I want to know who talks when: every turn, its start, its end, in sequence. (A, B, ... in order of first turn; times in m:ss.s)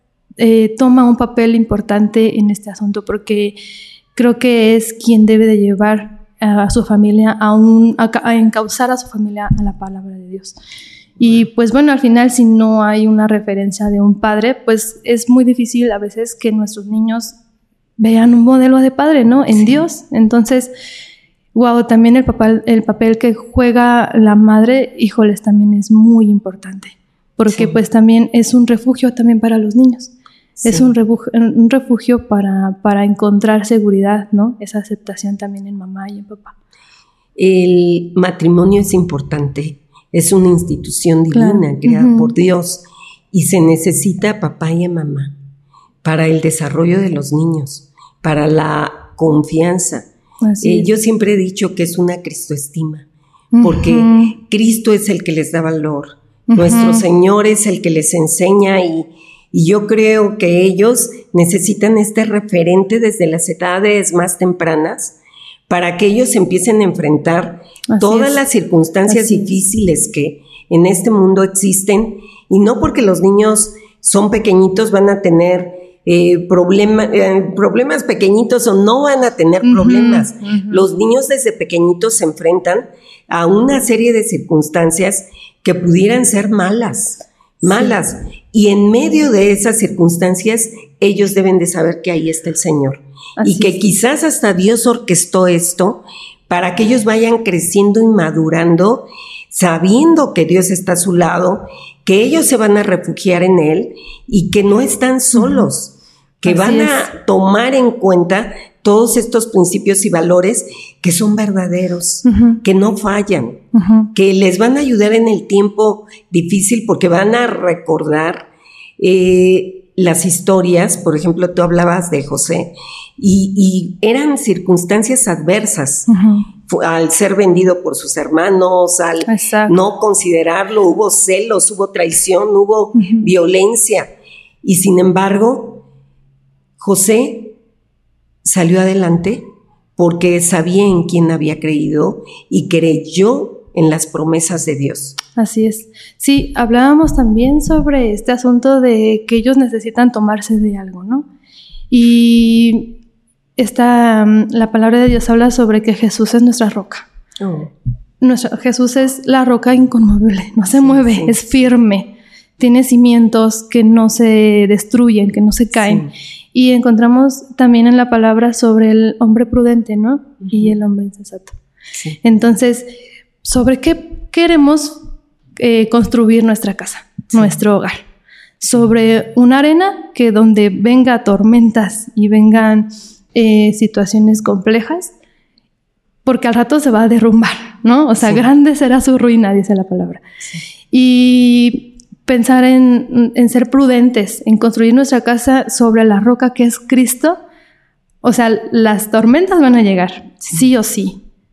0:00.4-0:03.5 A
0:04.2-0:10.6 A
0:11.2-0:17.4 A
0:18.0-0:20.7 A
0:19.5-0:19.8 B
0:21.5-0:30.1 A
0:27.4-0:27.8 B
0:30.6-0:30.9 B
0:30.6-0:36.5 A
0:37.4-0:45.3 B
0:41.3-0:42.3 A
0:46.0-0:50.1 B
0:50.4-0:50.9 A
0:50.6-0:53.1 B
0:53.5-0:54.4 A
0:53.6-1:05.2 B
0:56.5-0:57.0 A
1:05.7-1:53.6 B
1:07.9-1:08.4 A
1:09.1-1:09.5 A
1:19.6-1:20.8 A
1:27.6-1:27.9 A
1:33.4-1:33.9 A
1:45.4-1:45.7 A
1:46.4-1:47.1 A
1:52.2-1:52.6 A
1:53.7-1:54.1 A
1:54.1-1:58.5 B
1:59.0-2:06.1 B
2:06.1-2:06.5 A
2:06.6-2:14.1 B
2:09.2-2:09.8 A
2:13.0-2:13.3 A
2:14.6-2:15.8 B
2:16.8-2:17.5 B
2:18.4-2:19.4 B
2:20.0-2:25.2 B
2:25.3-2:31.3 A
2:31.9-2:32.9 A
2:33.6-2:37.1 A
2:37.4-2:37.7 B
2:38.2-2:51.6 A
2:40.7-2:41.5 B
2:45.7-2:46.1 B
2:50.4-2:50.7 B
2:51.9-2:52.2 B
2:52.2-2:52.9 A
2:53.4-2:55.0 A
2:55.6-2:58.0 A
2:57.3-2:57.5 B
2:58.6-3:05.1 A
3:06.2-3:10.2 A
3:10.9-3:17.4 A
3:18.2-3:21.2 A